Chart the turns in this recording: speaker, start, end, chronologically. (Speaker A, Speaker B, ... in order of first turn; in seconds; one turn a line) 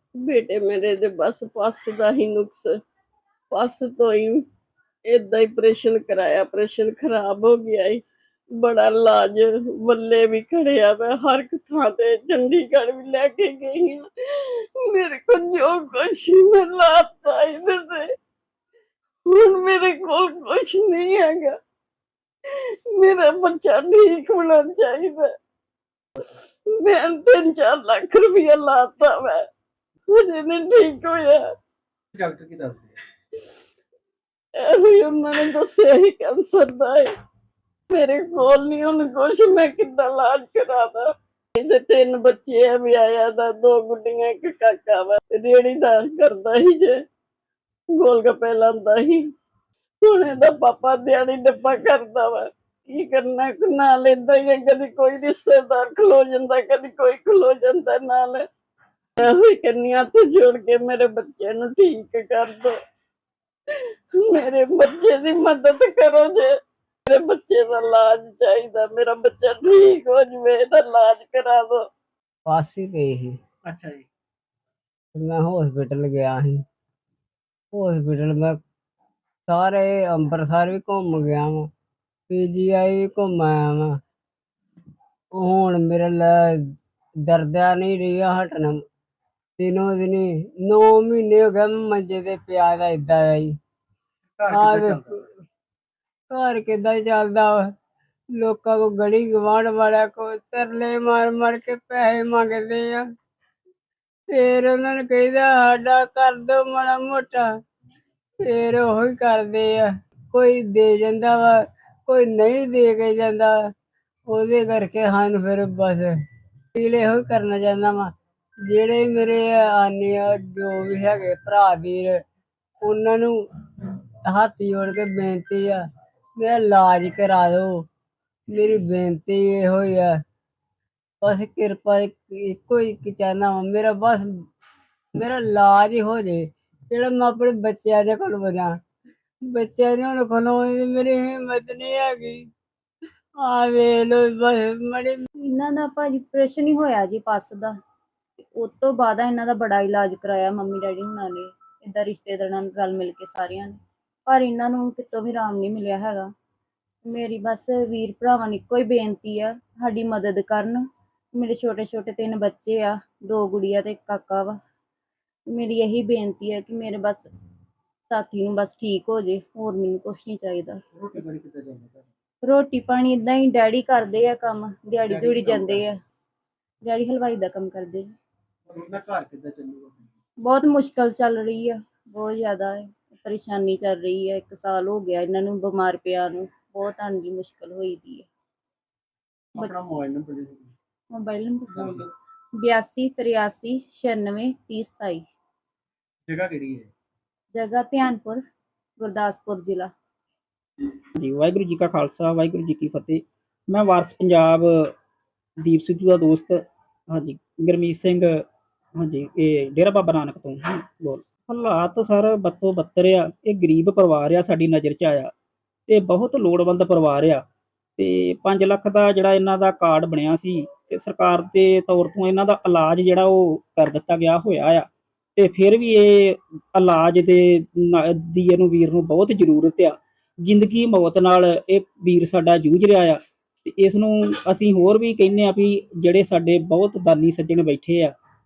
Speaker A: 0.2-2.7
Speaker A: 3.5-4.4
Speaker A: 5.1-8.0
Speaker A: 8.6-18.1
Speaker A: 19.3-21.6
Speaker A: 22.9-25.3
Speaker A: 26.7-29.4
Speaker A: 30.1-31.4
Speaker B: 32.1-32.9
Speaker A: 34.6-37.1
Speaker A: 37.9-47.0
Speaker A: 48.0-49.2
Speaker A: 50.0-58.5
Speaker A: 59.2-62.7
Speaker A: 63.7-66.5
Speaker A: 67.1-71.9
Speaker C: 72.5-73.3
Speaker B: 73.7-74.1
Speaker C: 75.2-76.6
Speaker C: 77.7-78.6
Speaker C: 79.5-81.7
Speaker C: 82.3-84.0
Speaker C: 85.3-86.6
Speaker C: 87.3-88.8
Speaker C: 89.6-93.5
Speaker B: 94.4-95.2
Speaker C: 94.5-95.2
Speaker C: 96.3-97.7
Speaker C: 98.4-103.0
Speaker C: 104.3-107.5
Speaker C: 108.4-113.6
Speaker C: 114.3-116.1
Speaker C: 116.8-118.1
Speaker C: 118.7-122.2
Speaker C: 122.8-123.4
Speaker C: 124.3-125.8
Speaker C: 126.4-127.9
Speaker C: 128.5-130.2
Speaker C: 131.2-134.3
Speaker C: 135.2-138.8
Speaker C: 139.5-142.4
Speaker C: 143.4-145.2
Speaker D: 145.4-147.7
Speaker D: 148.4-156.3
Speaker D: 157.0-164.6
Speaker D: 165.5-167.2
Speaker D: 168.1-170.8
Speaker B: 171.0-172.1
Speaker D: 172.4-176.0
Speaker B: 175.1-175.8
Speaker D: 176.8-178.1
Speaker B: 178.7-180.1
Speaker D: 180.4-188.3
Speaker B: 189.5-190.7
Speaker D: 191.1-192.0
Speaker B: 191.7-192.1
Speaker D: 192.6-195.3
Speaker B: 196.3-196.9
Speaker D: 197.5-198.4
Speaker D: 199.0-199.9
Speaker E: 201.2-204.9
Speaker E: 205.6-208.4
Speaker E: 209.0-215.3
Speaker E: 215.9-217.4
Speaker E: 218.0-238.1